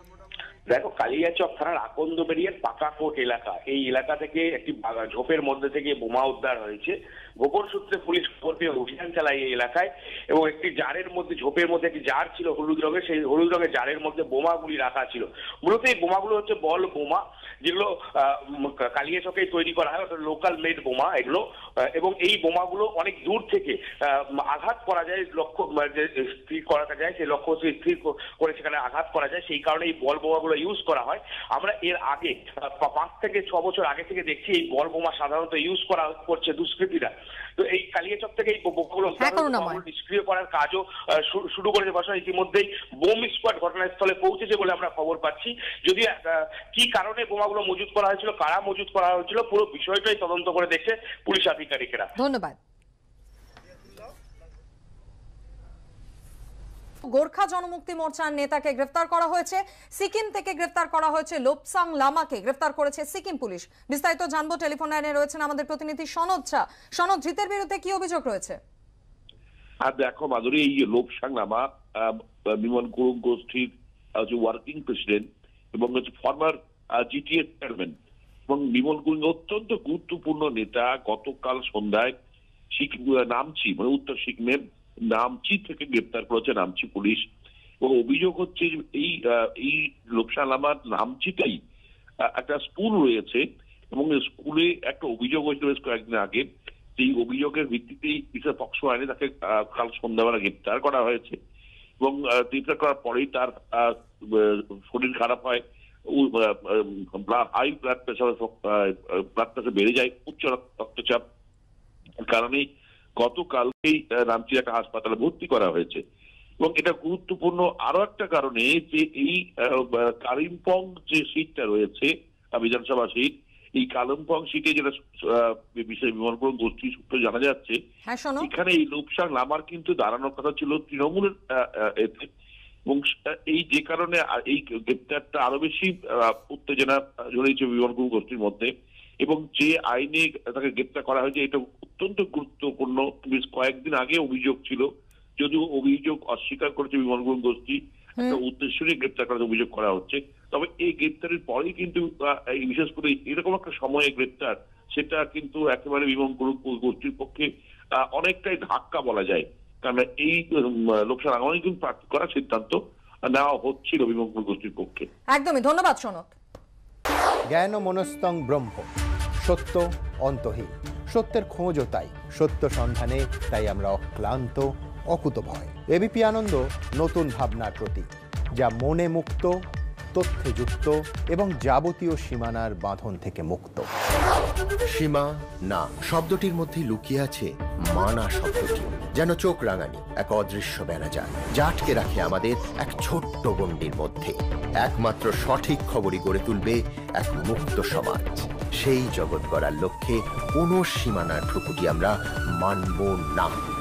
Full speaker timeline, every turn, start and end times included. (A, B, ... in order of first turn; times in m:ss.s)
0:00.7-0:52.1 A
0:39.2-0:39.8 B
0:52.2-0:52.6 B
0:57.1-1:08.6 B
1:09.8-1:17.9 C
1:18.5-1:22.1 C
1:22.8-1:27.2 C
1:27.8-1:31.6 C
1:32.2-1:36.5 C
1:37.0-1:41.4 C
1:42.0-1:51.2 C
1:52.3-1:52.6 C
1:53.2-1:56.0 C
1:56.6-2:07.8 C
2:08.1-2:08.5 B
2:08.4-2:12.3 C
2:12.9-2:18.7 C
2:19.2-2:24.9 C
2:25.4-2:37.5 C
2:38.1-2:45.1 C
2:45.3-2:46.3 B
2:47.5-2:48.9 D
2:49.4-2:58.1 D
2:58.6-2:59.6 D
3:00.1-3:03.9 D
3:05.0-3:18.3 E
3:18.8-3:22.1 E
3:22.6-3:23.6 E